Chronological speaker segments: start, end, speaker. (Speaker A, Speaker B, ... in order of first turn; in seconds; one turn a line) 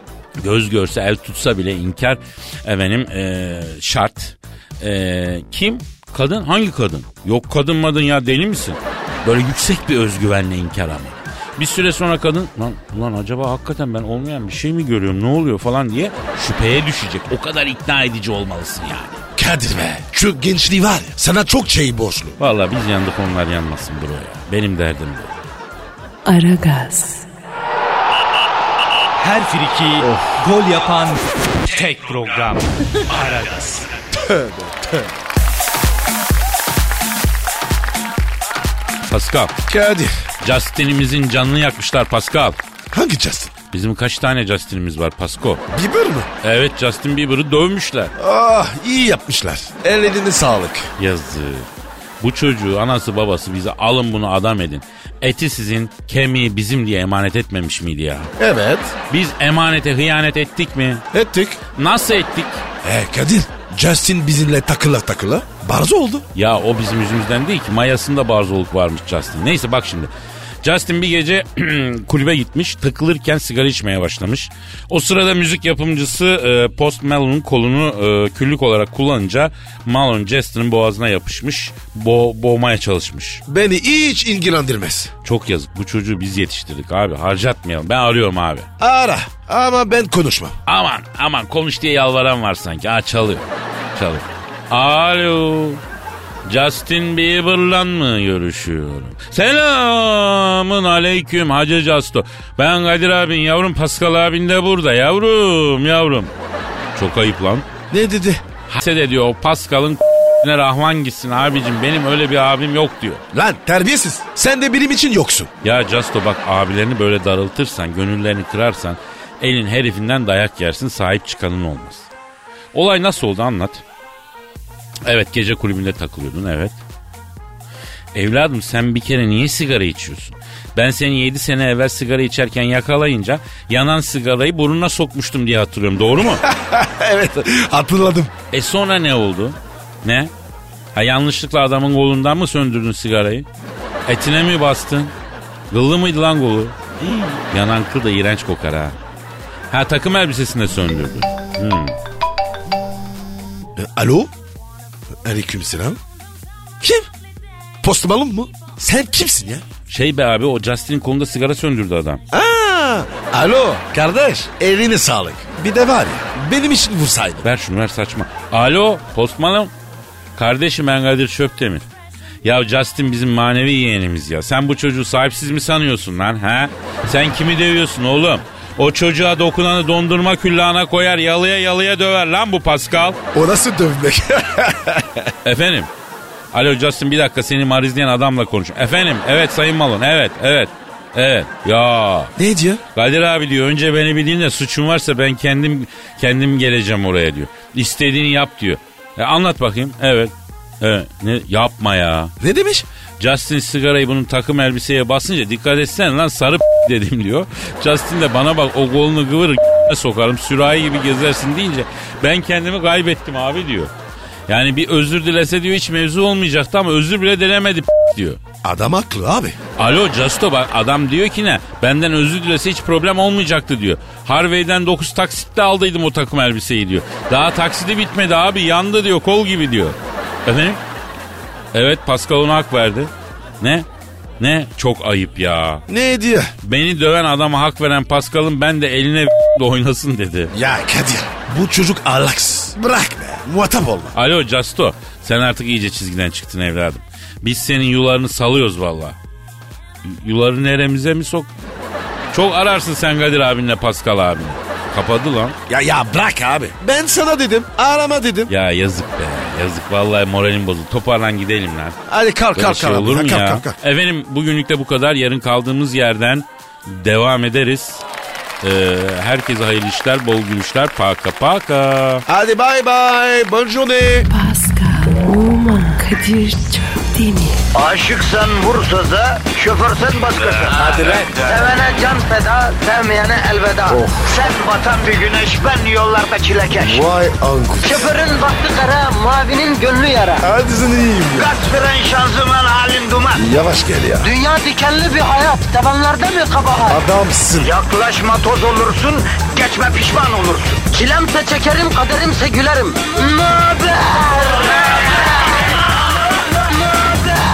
Speaker A: 0.4-19.2
Speaker B: 19.4-22.4
Speaker A: 22.4-25.4
Speaker C: 26.2-27.3
Speaker D: 29.2-33.9
Speaker B: 30.0-30.4
Speaker B: 34.1-35.1
Speaker A: 39.1-39.5
Speaker B: 39.7-40.1
Speaker A: 40.4-42.6
Speaker B: 42.9-43.5
Speaker A: 43.7-45.6
Speaker B: 45.7-46.3
Speaker A: 46.4-48.1
Speaker B: 48.2-50.9
Speaker A: 51.0-51.7
Speaker A: 52.2-58.3
Speaker B: 58.4-59.0
Speaker A: 59.1-61.0
Speaker B: 61.1-61.6
Speaker A: 61.8-62.6
Speaker B: 62.8-66.2
Speaker A: 66.3-70.1
Speaker A: 70.6-83.4
Speaker B: 83.5-85.1
Speaker A: 85.2-88.7
Speaker B: 88.8-90.6
Speaker A: 90.7-95.8
Speaker A: 96.5-106.3
Speaker A: 107.0-107.7
Speaker B: 107.9-108.5
Speaker A: 108.7-113.2
Speaker B: 113.3-115.5
Speaker A: 115.6-122.1
Speaker A: 122.7-123.8
Speaker A: 125.0-126.8
Speaker A: 128.1-136.4
Speaker B: 136.2-138.3
Speaker A: 138.5-140.3
Speaker A: 140.9-143.5
Speaker A: 144.1-145.1
Speaker A: 145.7-149.0
Speaker A: 149.7-151.9
Speaker B: 153.8-154.3
Speaker B: 155.2-156.0
Speaker B: 156.8-157.1
Speaker B: 157.8-159.7
Speaker A: 159.9-162.2
Speaker B: 162.3-167.5
Speaker A: 167.4-169.7
Speaker A: 170.4-171.8
Speaker A: 172.4-183.2
Speaker B: 183.3-185.3
Speaker A: 185.4-185.9
Speaker A: 186.5-192.3
Speaker B: 192.4-192.8
Speaker A: 192.9-202.3
Speaker B: 202.4-202.9
Speaker A: 203.2-213.9
Speaker A: 214.5-218.4
Speaker B: 218.6-219.6
Speaker A: 219.8-230.8
Speaker A: 231.7-233.9
Speaker A: 234.4-235.8
Speaker B: 235.9-236.5
Speaker A: 236.6-240.5
Speaker B: 240.5-244.2
Speaker A: 244.1-249.2
Speaker A: 250.1-251.5
Speaker A: 252.3-255.6
Speaker B: 255.7-258.5
Speaker A: 258.5-262.0
Speaker B: 262.1-263.8
Speaker A: 262.6-268.0
Speaker A: 268.6-272.2
Speaker B: 272.3-274.3
Speaker C: 274.3-277.6
Speaker E: 277.7-287.1
Speaker B: 280.6-281.6
Speaker B: 283.9-284.3
Speaker B: 286.8-288.1
Speaker E: 287.8-290.5
Speaker B: 290.4-291.5
Speaker E: 291.3-293.5
Speaker B: 293.3-294.3
Speaker E: 294.2-297.0
Speaker B: 296.9-297.7
Speaker E: 297.6-305.1
Speaker E: 306.9-307.4